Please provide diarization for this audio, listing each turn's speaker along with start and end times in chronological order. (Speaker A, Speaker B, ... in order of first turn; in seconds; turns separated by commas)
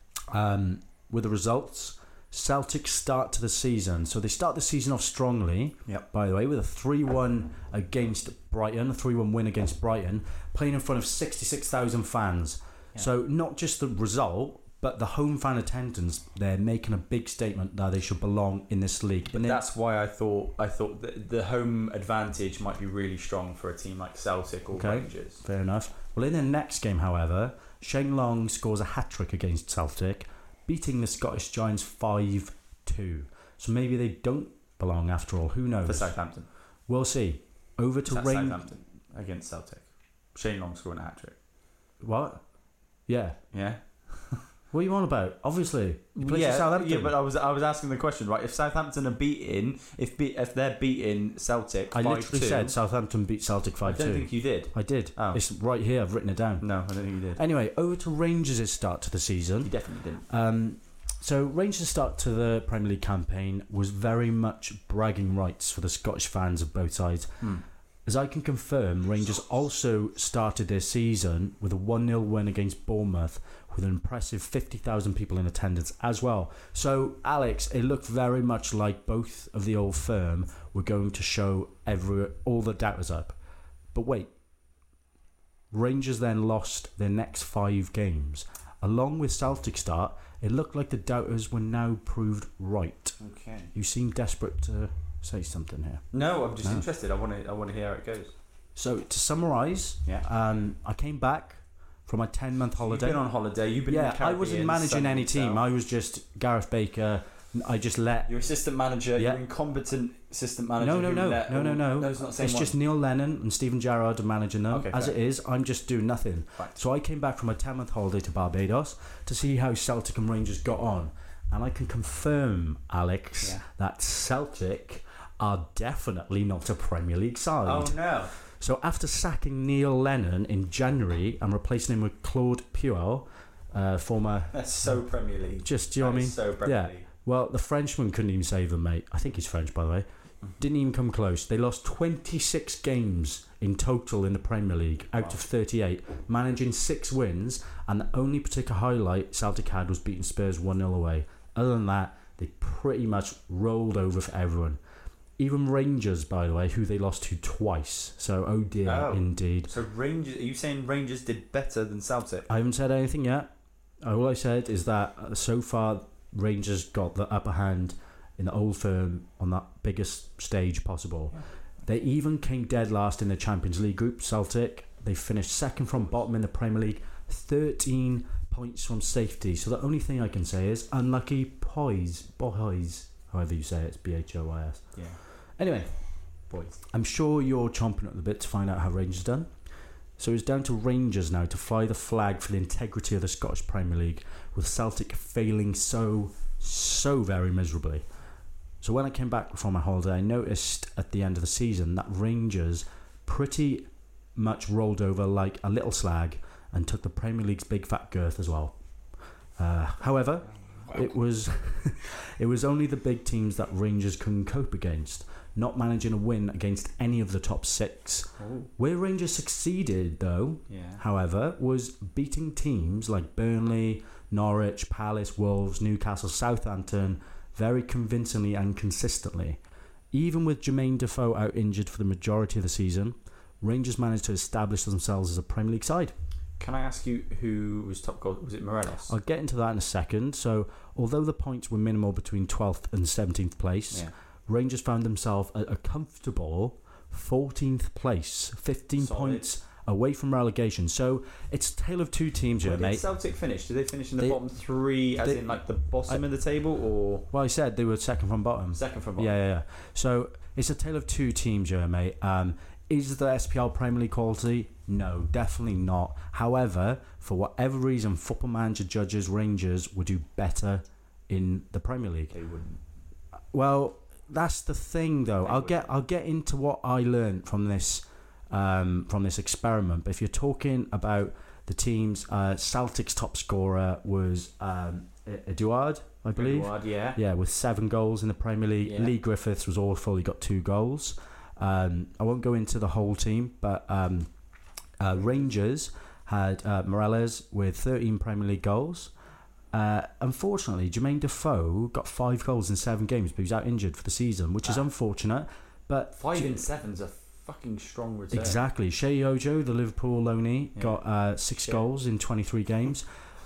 Speaker A: 0.3-19.6, Speaker B: 19.3-25.4, Speaker A: 24.7-36.1, Speaker B: 35.9-36.5, Speaker A: 36.9-38.6, Speaker B: 38.1-41.4, Speaker A: 42.0-42.4, Speaker A: 43.1-43.4, Speaker B: 43.5-44.4, Speaker A: 44.7-47.2, Speaker B: 46.2-52.8, Speaker A: 51.9-56.7, Speaker B: 53.8-55.4, Speaker B: 56.6-57.4, Speaker A: 57.4-59.7, Speaker B: 59.6-60.2, Speaker A: 60.3-67.3, Speaker A: 68.1-83.4, Speaker A: 83.9-84.3, Speaker A: 85.7-93.2, Speaker B: 93.2-93.7, Speaker A: 93.7-96.0, Speaker B: 96.1-98.3, Speaker A: 98.8-103.2, Speaker B: 102.8-105.6, Speaker A: 103.9-108.3, Speaker B: 108.3-112.7, Speaker A: 109.2-109.4, Speaker A: 110.8-128.0, Speaker B: 114.7-115.2, Speaker B: 127.7-128.3, Speaker A: 128.5-134.6, Speaker B: 134.5-137.1, Speaker A: 135.6-140.1, Speaker A: 140.6-154.8, Speaker A: 155.4-159.7, Speaker B: 158.8-162.5, Speaker A: 162.5-184.9, Speaker A: 185.6-185.9, Speaker B: 186.5-186.8, Speaker A: 186.9-189.5, Speaker A: 190.2-198.0, Speaker A: 198.8-208.7, Speaker A: 209.6-229.6, Speaker B: 218.4-218.7, Speaker B: 220.7-221.0, Speaker A: 230.1-236.1, Speaker B: 236.6-239.1, Speaker A: 239.1-253.0, Speaker B: 249.0-249.4, Speaker B: 252.6-257.2, Speaker A: 255.2-255.6, Speaker A: 257.3-272.3, Speaker B: 258.7-259.3, Speaker B: 272.3-272.8, Speaker A: 273.5-294.3, Speaker B: 275.4-275.9, Speaker B: 286.4-287.2, Speaker B: 288.9-289.1, Speaker A: 295.0-299.1, Speaker A: 299.7-306.6, Speaker B: 306.2-308.6, Speaker A: 308.3-313.1